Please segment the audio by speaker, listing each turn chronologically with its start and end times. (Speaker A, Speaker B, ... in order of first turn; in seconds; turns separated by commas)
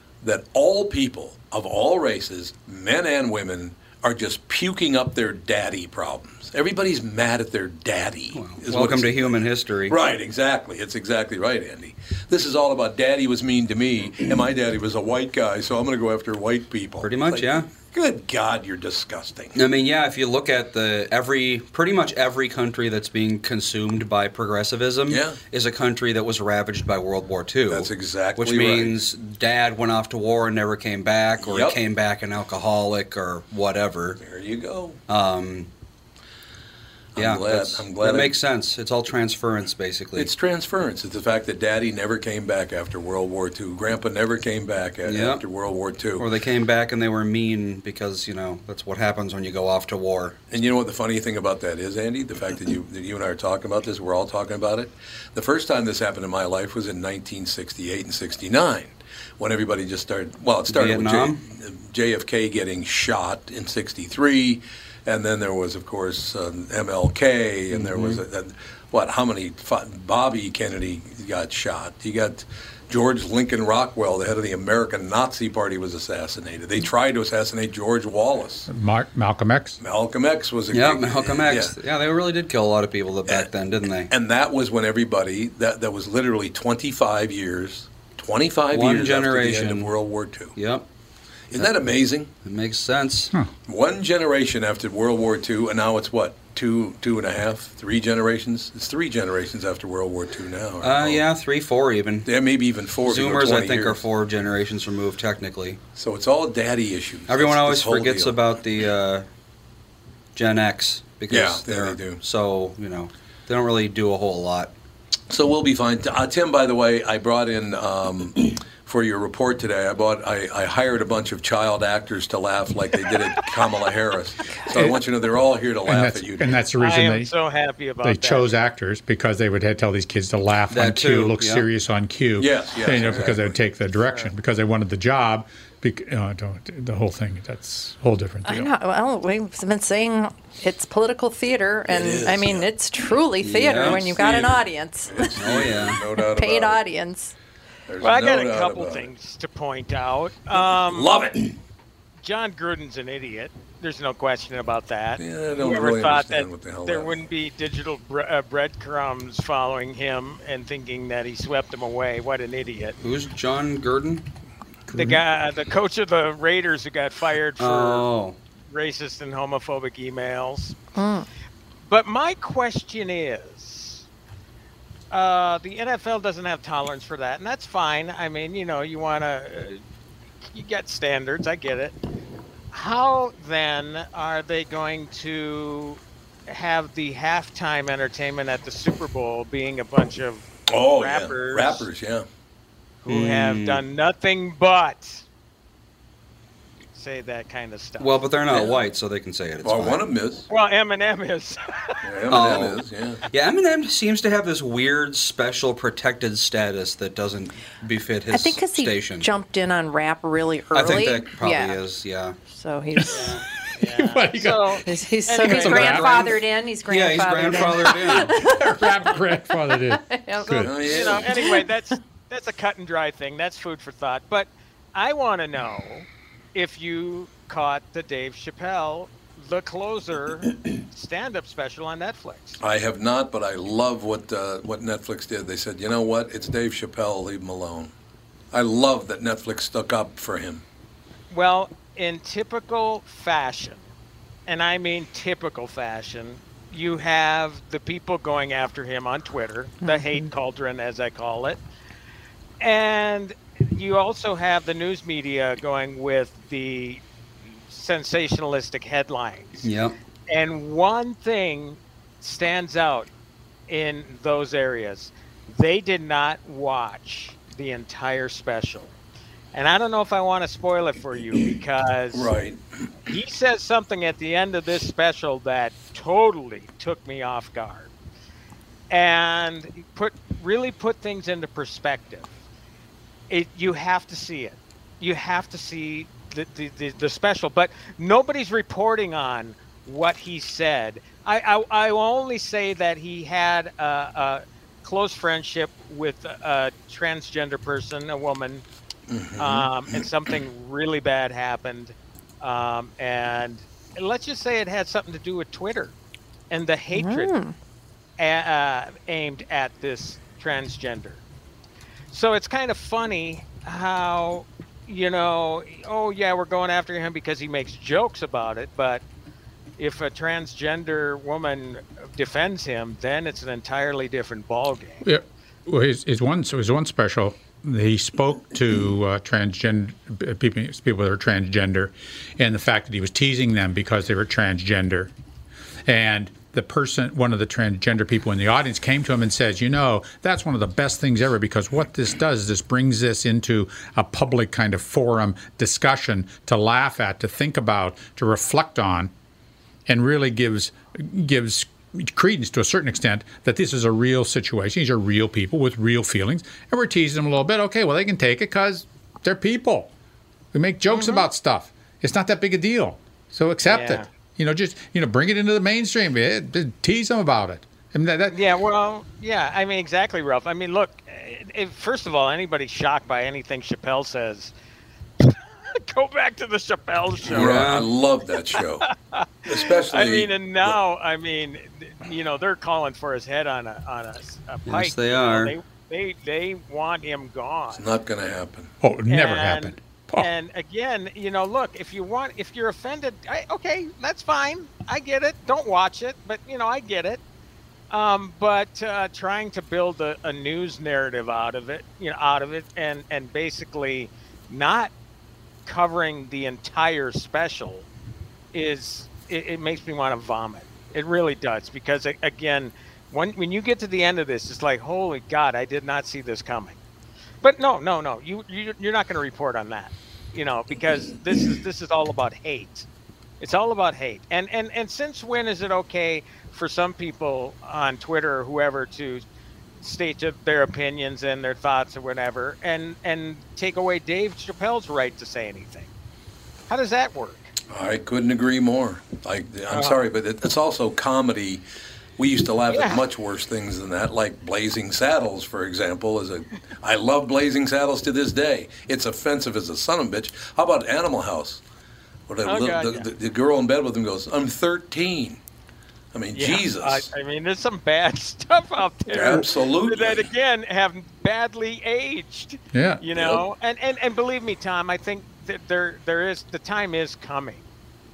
Speaker A: 0.2-19.6, Speaker B: 8.3-10.0, Speaker B: 17.0-17.7, Speaker B: 19.5-34.2, Speaker A: 25.1-25.4, Speaker A: 27.7-29.0, Speaker A: 31.4-31.8, Speaker A: 34.2-35.0, Speaker B: 35.1-35.7, Speaker A: 37.1-38.4, Speaker B: 37.1-40.3, Speaker A: 40.1-46.3, Speaker B: 45.0-45.4, Speaker B: 46.2-50.4, Speaker A: 50.5-78.7, Speaker B: 60.7-61.4, Speaker B: 67.7-68.2, Speaker C: 78.7-79.8, Speaker A: 79.8-81.8, Speaker B: 80.7-84.1, Speaker A: 84.1-90.5, Speaker B: 88.7-89.9, Speaker B: 90.5-90.8, Speaker A: 91.5-92.3, Speaker B: 92.4-93.3, Speaker A: 93.7-101.2, Speaker B: 100.8-102.3, Speaker A: 102.2-104.0, Speaker B: 103.0-105.8, Speaker A: 105.9-108.4, Speaker B: 107.3-109.2, Speaker B: 110.3-114.7, Speaker A: 111.3-112.2, Speaker A: 115.3-126.6, Speaker C: 125.8-127.3, Speaker D: 126.8-128.5, Speaker C: 128.0-138.7, Speaker B: 130.7-131.7, Speaker A: 132.4-133.6, Speaker E: 138.4-145.3, Speaker A: 141.9-142.7, Speaker B: 143.4-144.2, Speaker A: 143.7-146.8, Speaker B: 145.4-146.0, Speaker E: 146.2-147.3, Speaker A: 147.9-149.1, Speaker D: 148.0-151.2, Speaker A: 150.6-151.6, Speaker D: 152.2-163.0, Speaker A: 155.2-157.2, Speaker B: 163.0-164.3, Speaker C: 164.9-165.2, Speaker D: 164.9-168.1, Speaker B: 167.6-168.4, Speaker D: 168.7-170.8, Speaker E: 170.9-171.3, Speaker D: 171.8-174.0, Speaker D: 175.1-179.8, Speaker D: 180.5-181.9, Speaker D: 182.7-191.9, Speaker A: 190.7-192.3, Speaker D: 193.0-195.2, Speaker B: 193.1-193.8, Speaker D: 196.9-198.2, Speaker B: 198.0-200.0, Speaker A: 198.5-198.8, Speaker A: 199.6-200.5, Speaker D: 200.5-202.0, Speaker A: 202.0-203.2, Speaker B: 202.3-209.3, Speaker E: 208.3-211.8, Speaker B: 210.7-212.3, Speaker E: 212.5-213.4, Speaker D: 213.2-216.2, Speaker C: 213.7-214.8, Speaker E: 214.8-218.6, Speaker C: 215.4-216.3, Speaker B: 215.5-218.3, Speaker C: 218.2-220.7, Speaker E: 219.9-221.7, Speaker D: 220.4-232.6, Speaker A: 220.6-221.3, Speaker A: 232.6-237.9, Speaker A: 238.5-240.6, Speaker D: 241.3-243.8, Speaker D: 244.5-251.6, Speaker E: 249.8-250.2, Speaker D: 252.6-257.0, Speaker D: 257.7-259.7, Speaker B: 259.6-259.9, Speaker D: 260.3-263.1, Speaker D: 263.7-268.9, Speaker D: 269.5-272.3, Speaker A: 272.1-272.6, Speaker D: 273.1-277.9, Speaker D: 278.9-282.3, Speaker D: 283.3-298.6, Speaker A: 299.1-300.0, Speaker D: 299.4-305.9, Speaker D: 306.5-307.3, Speaker E: 306.9-307.5, Speaker D: 308.2-311.2, Speaker D: 312.1-319.0, Speaker D: 319.8-325.0, Speaker C: 325.0-335.1, Speaker C: 335.9-349.1, Speaker C: 349.9-359.9, Speaker C: 360.5-368.4, Speaker D: 360.9-361.2, Speaker D: 363.6-364.1, Speaker D: 368.3-374.5, Speaker D: 375.2-377.5, Speaker B: 377.3-377.9, Speaker A: 377.3-378.9, Speaker D: 378.8-387.8, Speaker A: 379.5-380.8, Speaker B: 384.6-385.5, Speaker A: 387.7-388.7, Speaker C: 388.8-390.3, Speaker D: 389.1-397.2, Speaker D: 397.9-404.9, Speaker D: 405.6-407.9, Speaker D: 408.5-416.8, Speaker D: 417.4-422.9, Speaker D: 423.4-429.2, Speaker D: 429.8-435.9, Speaker D: 436.7-437.5, Speaker A: 437.7-441.6, Speaker D: 439.7-440.0, Speaker A: 442.2-451.6, Speaker D: 442.7-443.0, Speaker A: 452.3-455.4, Speaker D: 452.4-453.1, Speaker A: 456.1-457.1, Speaker D: 456.3-467.6, Speaker A: 459.1-460.3, Speaker C: 462.7-463.0, Speaker A: 463.1-463.4